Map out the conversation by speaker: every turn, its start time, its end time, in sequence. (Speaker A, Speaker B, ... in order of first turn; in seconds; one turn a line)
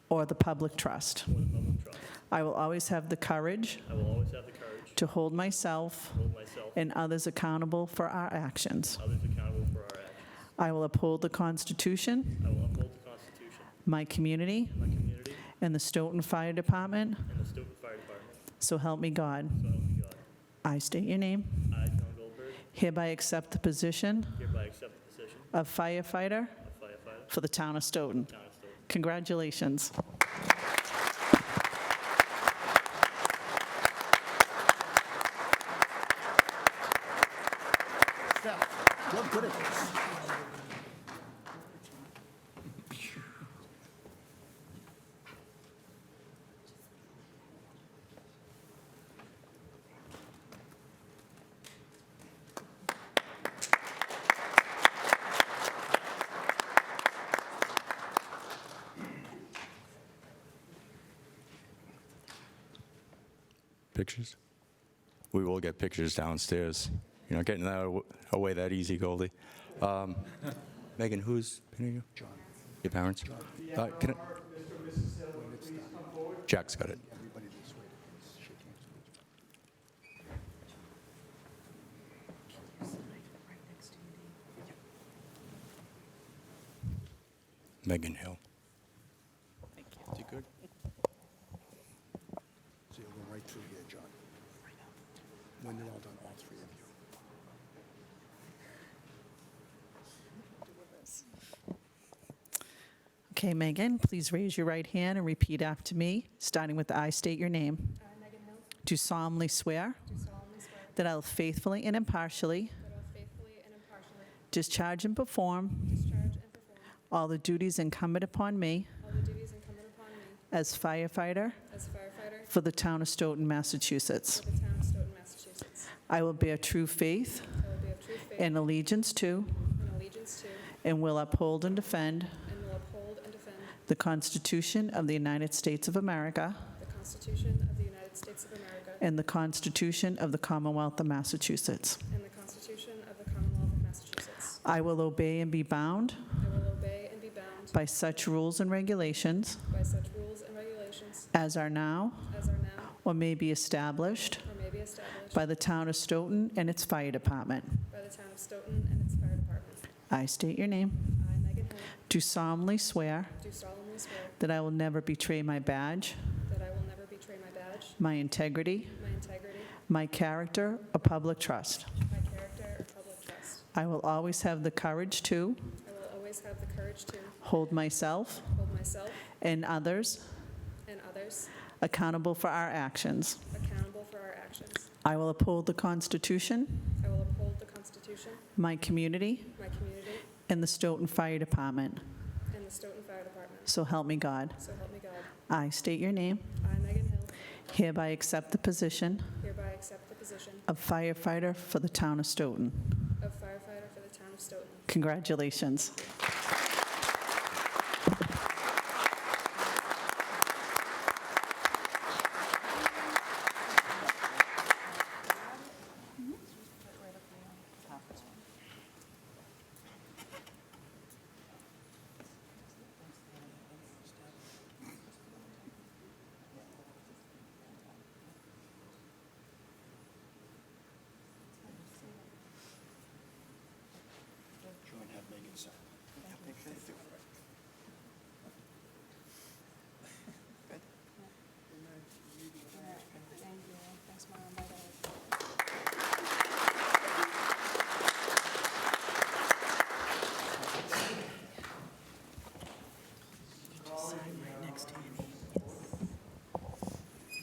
Speaker A: 0.1-1.4
Speaker B: 1.3-2.2
Speaker A: 2.3-3.9
Speaker B: 3.9-6.8
Speaker A: 5.0-9.0
Speaker B: 8.9-10.4
Speaker A: 10.6-12.4
Speaker B: 12.4-13.7
Speaker A: 13.8-14.9
Speaker B: 14.7-15.5
Speaker A: 15.5-17.3
Speaker B: 17.2-18.4
Speaker A: 18.6-19.8
Speaker B: 19.5-20.2
Speaker A: 20.6-21.7
Speaker B: 21.7-22.6
Speaker A: 22.7-24.4
Speaker B: 24.4-25.5
Speaker A: 25.5-26.6
Speaker B: 26.6-27.3
Speaker A: 27.3-29.9
Speaker B: 28.3-28.8
Speaker C: 38.6-39.8
Speaker D: 63.9-64.4
Speaker D: 65.3-72.1
Speaker C: 72.1-72.6
Speaker D: 72.8-74.3
Speaker C: 73.2-73.6
Speaker C: 75.3-76.2
Speaker D: 76.4-77.0
Speaker C: 76.8-79.0
Speaker D: 87.8-88.4
Speaker C: 92.9-94.1
Speaker C: 95.6-96.9
Speaker A: 103.3-108.0
Speaker E: 108.0-108.7
Speaker A: 108.8-110.1
Speaker E: 110.0-111.0
Speaker A: 110.9-112.8
Speaker E: 112.8-114.4
Speaker A: 114.5-115.9
Speaker E: 115.8-117.0
Speaker A: 117.1-118.9
Speaker E: 119.0-120.4
Speaker A: 120.5-121.7
Speaker E: 121.7-122.5
Speaker A: 122.5-124.4
Speaker E: 124.3-125.9
Speaker A: 126.1-127.7
Speaker E: 127.6-128.6
Speaker A: 128.3-129.7
Speaker E: 129.7-130.7
Speaker A: 130.8-132.4
Speaker E: 132.4-133.8
Speaker A: 133.9-136.7
Speaker E: 136.8-139.1
Speaker A: 139.0-142.0
Speaker E: 142.1-144.6
Speaker A: 144.6-146.3
Speaker E: 146.4-147.8
Speaker A: 147.7-149.6
Speaker E: 149.7-151.3
Speaker A: 151.3-152.4
Speaker E: 152.3-152.9
Speaker A: 153.0-154.5
Speaker E: 154.4-155.5
Speaker A: 155.3-157.8
Speaker E: 157.9-159.9
Speaker A: 160.1-161.2
Speaker E: 161.2-162.0
Speaker A: 162.1-163.4
Speaker E: 163.4-164.4
Speaker A: 164.4-166.2
Speaker E: 166.4-168.0
Speaker A: 168.0-169.0
Speaker E: 168.9-169.8
Speaker A: 169.8-172.0
Speaker E: 172.1-173.7
Speaker A: 173.7-175.7
Speaker E: 175.8-177.5
Speaker A: 177.4-178.6
Speaker E: 178.5-179.3
Speaker A: 179.3-180.6
Speaker E: 180.8-181.6
Speaker A: 181.8-183.4
Speaker E: 183.5-184.9
Speaker A: 185.0-187.0
Speaker E: 187.0-188.4
Speaker A: 188.6-189.8
Speaker E: 189.6-190.3
Speaker A: 190.4-192.1
Speaker E: 192.5-193.7
Speaker A: 193.7-194.7
Speaker E: 194.6-195.3
Speaker A: 195.5-196.6
Speaker E: 196.6-197.4
Speaker A: 197.7-199.4
Speaker E: 199.4-200.7
Speaker A: 200.7-203.1
Speaker E: 203.2-205.0
Speaker A: 204.9-206.0
Speaker E: 205.7-206.1
Speaker E: 216.9-218.0
Speaker C: 235.0-235.5
Speaker E: 242.9-245.1